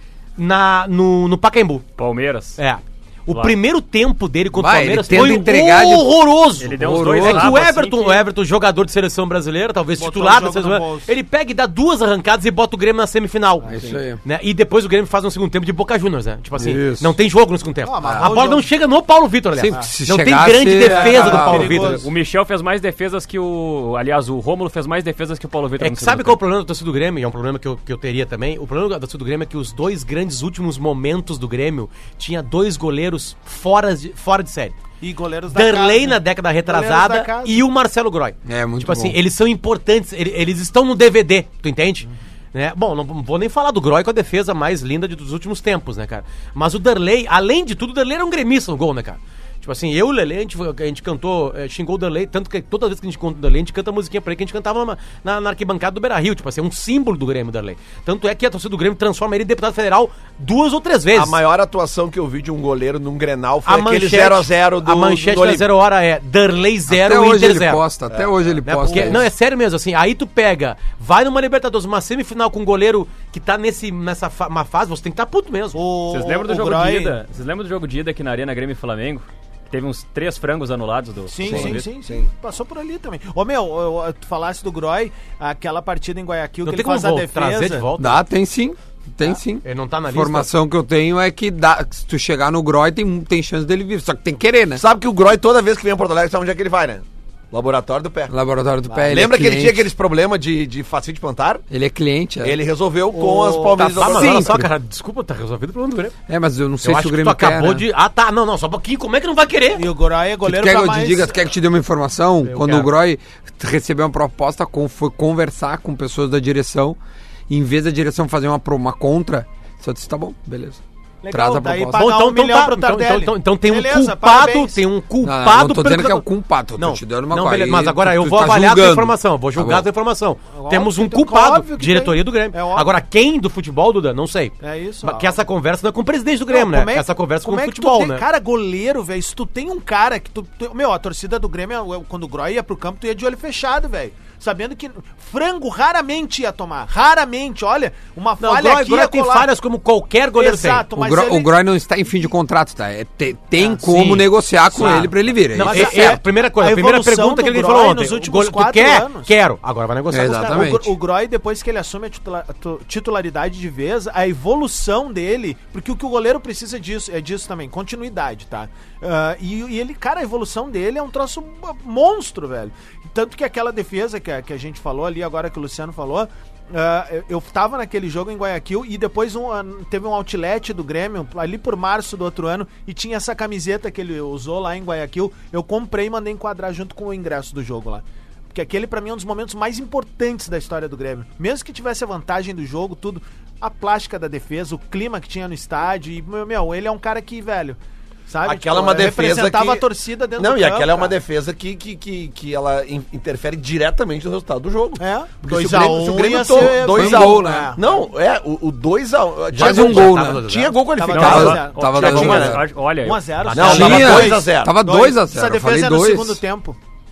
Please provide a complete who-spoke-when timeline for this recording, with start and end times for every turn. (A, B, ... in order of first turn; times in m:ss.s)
0:00.4-0:01.9 A
0:02.0-0:02.6 B
0:02.6-0:22.0 A
0:03.3-0:03.6 B
0:04.5-0:06.1 C
0:06.6-0:08.2 B
0:06.7-0:07.6 C
0:10.0-0:11.1 D
0:13.7-0:14.2 C
0:16.6-0:17.1 C
0:17.8-0:18.7 D
0:18.0-0:18.3 C
0:19.6-0:21.8 C
0:20.8-0:22.1 D
0:21.3-0:26.4 B
0:25.8-0:34.8 A
0:35.0-0:37.6 D
0:35.5-1:01.4 A
0:38.5-0:39.2 C
1:01.1-1:05.7 E
1:03.6-1:07.8 A
1:06.9-1:09.3 C
1:08.1-1:08.4 E
1:08.6-1:15.8 A
1:15.8-1:17.2 D
1:16.1-1:21.9 B
1:21.3-1:27.8 D
1:21.4-1:22.3 E
1:26.6-1:28.2 A
1:28.0-1:34.8 C
1:29.6-1:30.5 A
1:34.8-1:38.3 E
1:38.3-1:39.9 C
1:39.0-1:41.6 E
1:41.7-1:42.6 C
1:42.4-1:44.6 E
1:43.1-1:43.8 D
1:43.8-1:44.7 C
1:44.0-1:46.2 A
1:46.3-1:47.8 C
1:46.8-1:49.9 A
1:49.8-1:51.4 D
1:50.4-1:57.0 C
1:52.5-1:52.9 A
1:57.5-2:02.0 C
2:01.2-2:04.8 D
2:02.0-2:06.3 A
2:05.2-2:09.9 C
2:06.8-2:18.2 A
2:10.5-2:12.9 D
2:14.6-2:15.4 D
2:16.5-2:29.5 D
2:28.4-2:30.9 A
2:30.4-2:31.5 D
2:31.0-2:36.2 C
2:33.8-2:40.6 A
2:34.8-2:35.1 D
2:35.6-2:39.3 D
2:40.1-2:40.9 C
2:40.5-3:21.2 D
3:18.5-3:19.9 E
3:20.4-3:32.6 E
3:25.0-3:27.8 D
3:26.6-3:27.7 C
3:29.5-3:30.8 A
3:29.6-3:30.4 C
3:31.0-3:36.8 D
3:31.1-3:33.4 B
3:31.2-3:32.6 C
3:33.5-3:34.3 A
3:33.6-3:34.8 E
3:33.6-3:36.4 C